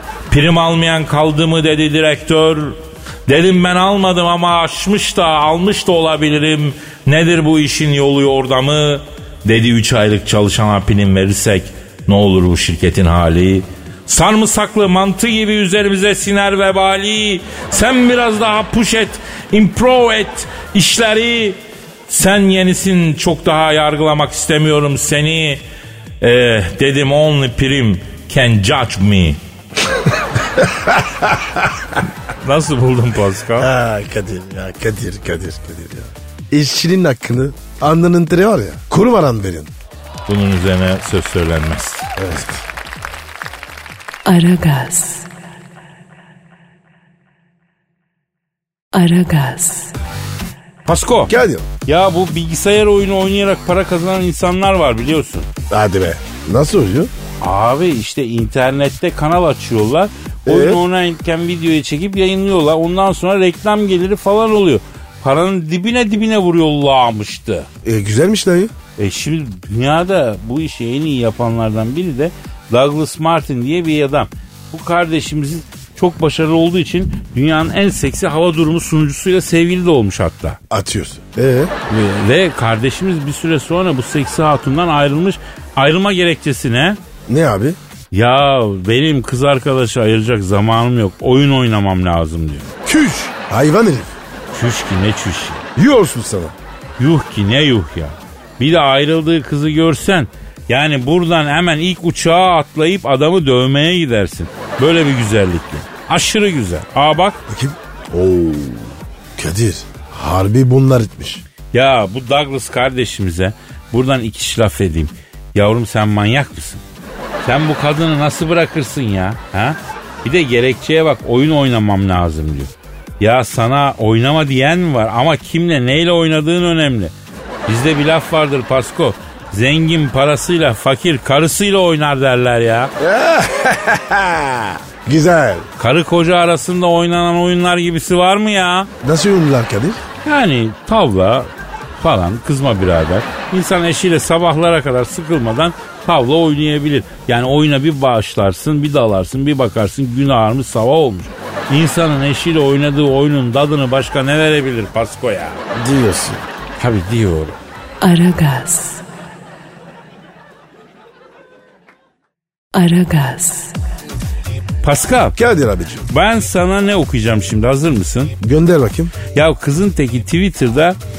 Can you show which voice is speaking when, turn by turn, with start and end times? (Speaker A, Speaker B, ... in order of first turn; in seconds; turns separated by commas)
Speaker A: 0.3-25.6, Speaker A: 26.2-29.4, Speaker B: 30.4-32.0, Speaker A: 32.4-33.7, Speaker B: 33.6-39.7, Speaker A: 40.3-42.1, Speaker B: 42.2-42.6, Speaker C: 44.2-45.3, Speaker C: 48.9-49.9, Speaker A: 50.9-51.3, Speaker B: 51.3-51.7, Speaker A: 51.9-55.5, Speaker B: 55.7-57.1, Speaker A: 57.4-67.7, Speaker B: 60.5-60.8, Speaker B: 67.8-68.7, Speaker A: 69.0-80.6, Speaker B: 80.7-81.7, Speaker A: 81.9-87.0, Speaker B: 87.3-87.8, Speaker A: 88.1-92.7, Speaker B: 92.8-94.1, Speaker A: 94.5-95.6, Speaker B: 95.8-96.5, Speaker A: 97.0-107.4, Speaker B: 107.5-111.4, Speaker A: 111.7-116.8, Speaker A: 117.4-127.1, Speaker A: 127.7-132.9, Speaker B: 133.0-135.7, Speaker A: 135.8-138.9, Speaker B: 139.0-140.0, Speaker A: 140.2-155.6, Speaker B: 155.7-156.4, Speaker A: 156.8-157.6, Speaker C: 158.0-159.0, Speaker C: 162.7-163.8, Speaker A: 164.8-165.4, Speaker B: 165.4-166.1, Speaker A: 166.1-168.3, Speaker B: 168.4-169.2, Speaker A: 169.3-171.0